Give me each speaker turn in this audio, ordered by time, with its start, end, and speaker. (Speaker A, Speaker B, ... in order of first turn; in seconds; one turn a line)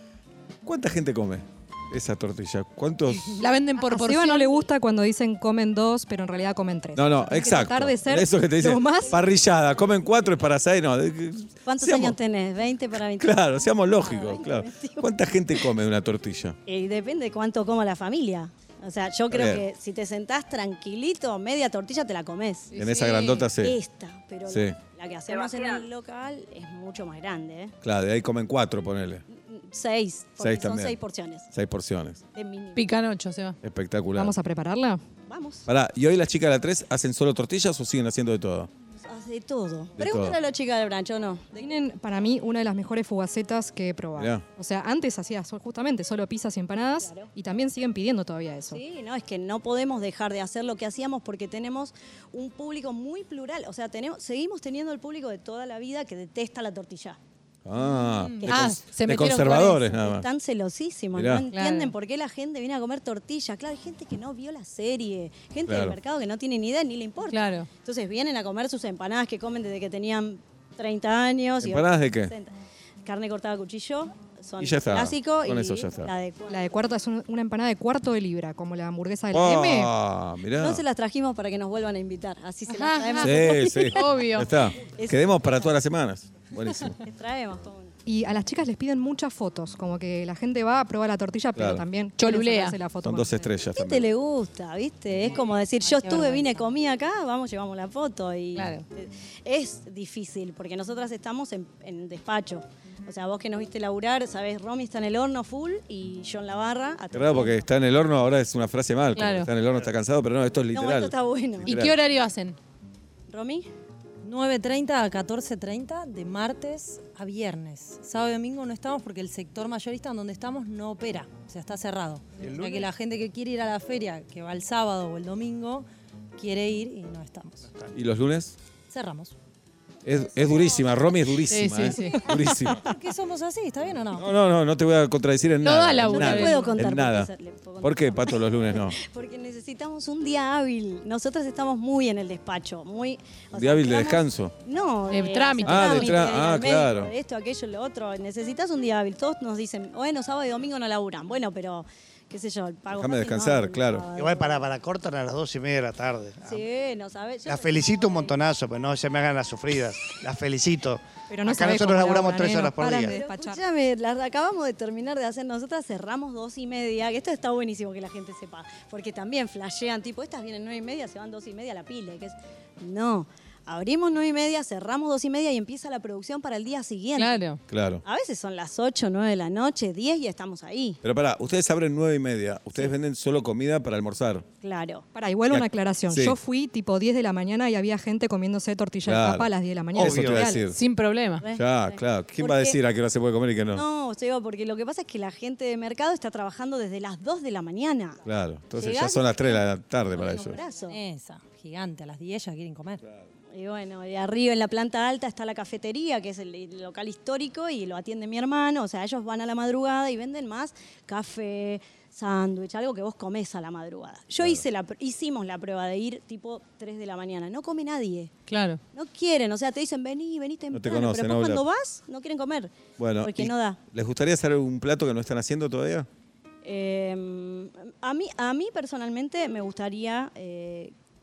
Speaker A: 0.7-3.4
Speaker B: 3.2-4.6
Speaker C: 3.8-9.1
Speaker A: 7.0-12.2
Speaker D: 11.7-15.6
Speaker A: 13.2-16.6
Speaker D: 16.7-22.8
Speaker A: 19.3-19.6
Speaker B: 22.7-23.5
Speaker A: 22.8-23.8
Speaker D: 23.6-27.8
Speaker A: 24.5-24.8
Speaker A: 27.8-29.2
Speaker D: 29.3-31.5
Speaker A: 30.4-31.0
Speaker A: 31.5-32.2
Speaker D: 32.3-32.9
Speaker B: 32.8-33.6
Speaker A: 33.6-34.3
Speaker C: 34.2-35.0
Speaker D: 35.3-35.7
Speaker A: 35.7-38.7
Speaker D: 39.0-41.7
Speaker A: 40.0-40.4
Speaker C: 41.6-48.8
Speaker A: 44.2-44.4
Speaker D: 46.8-47.3
Speaker D: 48.7-57.2
Speaker A: 57.7-60.3
Speaker B: 57.8-59.8
Speaker D: 59.1-72.5
Speaker A: 61.1-61.5
Speaker B: 61.5-61.9
Speaker A: 65.7-66.0
Speaker B: 67.3-67.7
Speaker A: 71.6-72.3
Speaker D: 73.0-76.7
Speaker A: 74.6-76.1
Speaker C: 76.5-79.9
Speaker A: 79.3-80.8
Speaker D: 80.6-84.1
Speaker B: 82.7-84.5
Speaker A: 83.2-87.0
Speaker D: 84.8-85.8
Speaker D: 87.0-87.9
Speaker C: 88.1-93.5
Speaker A: 91.6-91.8
Speaker B: 92.2-92.8
Speaker A: 93.0-94.1
Speaker D: 93.7-107.7
Speaker E: 95.8-96.6
Speaker B: 98.5-98.8
Speaker A: 107.1-112.0
Speaker B: 109.2-109.5
Speaker D: 110.7-111.8
Speaker B: 111.7-112.6
Speaker D: 113.3-113.7
Speaker E: 114.2-127.7
Speaker F: 122.4-122.9
Speaker F: 127.7-128.0
Speaker A: 128.0-128.6
Speaker E: 128.9-129.3
Speaker A: 130.1-132.8
Speaker B: 131.5-132.3
Speaker E: 132.2-134.3
Speaker A: 134.2-137.3
Speaker B: 135.6-136.9
Speaker D: 136.0-154.7
Speaker A: 137.8-139.0
Speaker A: 143.6-144.6
Speaker B: 145.1-146.2
Speaker A: 145.7-147.1
Speaker A: 152.9-154.0
Speaker F: 154.2-156.7
Speaker D: 156.4-158.4
Speaker F: 157.5-163.2
Speaker C: 161.3-163.6
Speaker D: 163.1-177.4
Speaker B: 177.2-177.6
Speaker A: 177.7-178.0
Speaker D: 178.0-181.0
Speaker A: 181.0-184.4
Speaker D: 184.6-185.1
Speaker C: 185.1-190.6
Speaker A: 185.5-186.4
Speaker A: 189.1-190.8
Speaker F: 190.0-190.5
Speaker B: 190.7-191.5
Speaker D: 191.4-192.8
Speaker A: 191.5-193.8
Speaker D: 193.7-198.2
Speaker A: 198.2-200.6
Speaker E: 198.8-199.6
Speaker D: 198.9-199.3
Speaker E: 200.2-203.0
Speaker D: 200.2-201.0
Speaker D: 203.5-218.3
Speaker B: 218.5-218.8
Speaker D: 218.9-223.8
Speaker A: 220.7-221.6
Speaker A: 223.0-226.1
Speaker D: 226.6-230.9